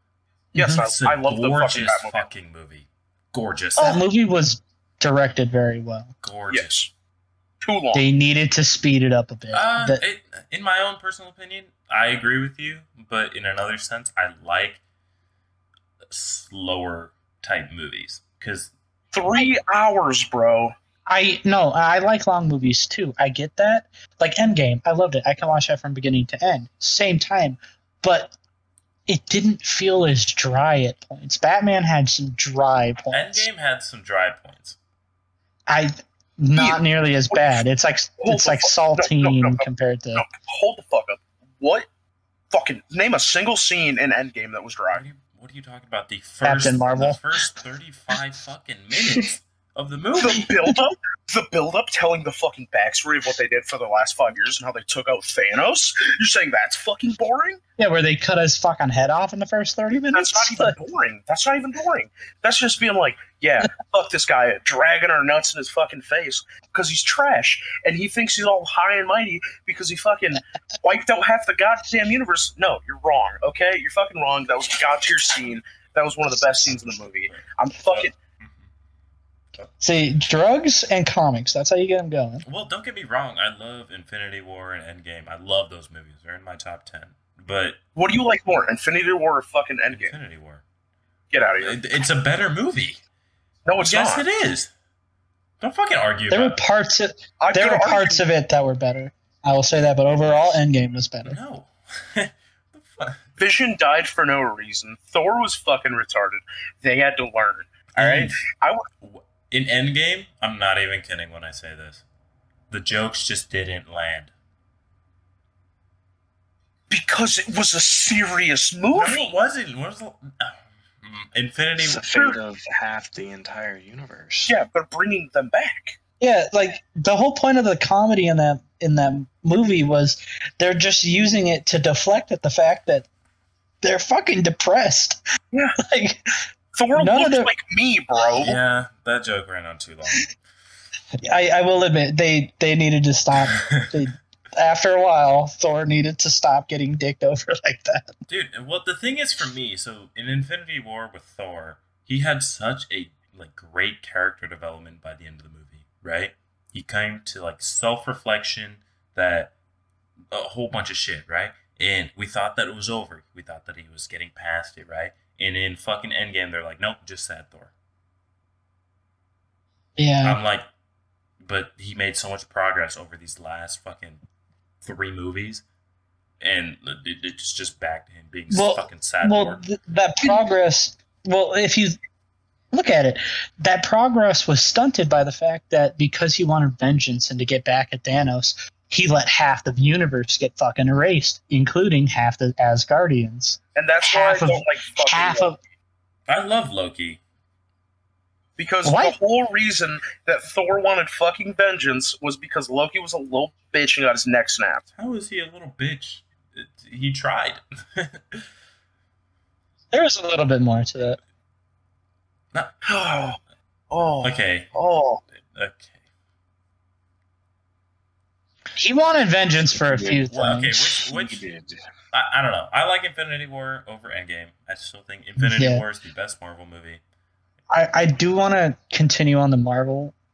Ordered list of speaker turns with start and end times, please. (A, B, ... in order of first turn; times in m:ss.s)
0:00.5-0:00.8 A
0:00.6-0:02.2 B
0:00.8-0:04.0 C
0:03.8-0:06.1 A
0:06.2-0:06.7 C
0:06.5-0:06.9 B
0:07.6-0:08.0 B
0:07.9-0:10.0 A
0:09.5-0:14.8 C
0:16.1-0:18.7 C
0:19.1-0:20.7 B
0:21.1-0:28.3 A
0:29.1-0:33.5 A
0:33.1-0:34.8 C
0:35.7-0:40.2 A
0:36.5-0:36.8 B
0:38.2-0:41.9 B
0:42.5-0:45.0 B
0:44.9-0:50.5 C
0:46.4-0:47.2 A
0:50.2-0:57.6 B
0:57.8-1:00.7 A
1:00.1-1:18.1 B
1:17.3-1:18.7 C
1:19.8-1:22.4 A
1:22.4-1:27.8 C
1:28.0-1:30.2 B
1:29.9-1:30.6 C
1:31.3-1:31.8 B
1:31.6-1:33.0 C
1:33.6-1:34.2 B
1:33.8-1:34.7 C
1:35.6-1:36.6 C
1:36.3-1:41.4 A
1:37.4-1:38.2 B
1:40.2-1:40.5 C
1:41.2-1:43.2 C
1:43.4-1:48.8 B
1:48.0-1:48.4 C
1:49.0-1:52.0 C
1:52.7-1:54.3 C
1:56.9-1:59.3 B
1:58.9-2:02.0 C
2:01.8-2:04.6 D
2:02.1-2:02.4 B
2:04.5-2:06.0 B
2:06.2-2:13.1 A
2:13.8-2:15.2 A
2:15.5-2:15.8 B
2:15.8-2:16.4 A
2:16.8-2:18.6 B
2:16.9-2:17.5 A
2:18.4-2:20.4 C
2:21.2-2:28.1 A
2:23.4-2:23.9 C
2:28.3-2:39.5 C
2:40.3-2:47.7 C
2:50.0-2:50.4 A
2:50.2-2:50.7 C
2:51.4-2:54.2 C
2:54.8-2:55.6 C
2:56.4-2:59.6 C
2:58.5-3:02.0 A
3:02.7-3:15.6 A
3:13.8-3:15.5 B
3:16.3-3:17.2 C
3:18.6-3:24.8 B
3:18.8-3:19.1 A
3:25.0-3:28.4 C
3:29.9-3:31.2 A
3:32.8-3:33.4 B
3:33.9-3:35.2 B
3:34.2-3:34.7 C
3:35.5-3:35.9 C
3:38.8-3:41.0 A
3:39.7-3:41.8 D
3:40.3-3:41.4 C
3:42.1-3:47.0 C
3:45.4-3:45.8 A
3:47.7-3:50.1 A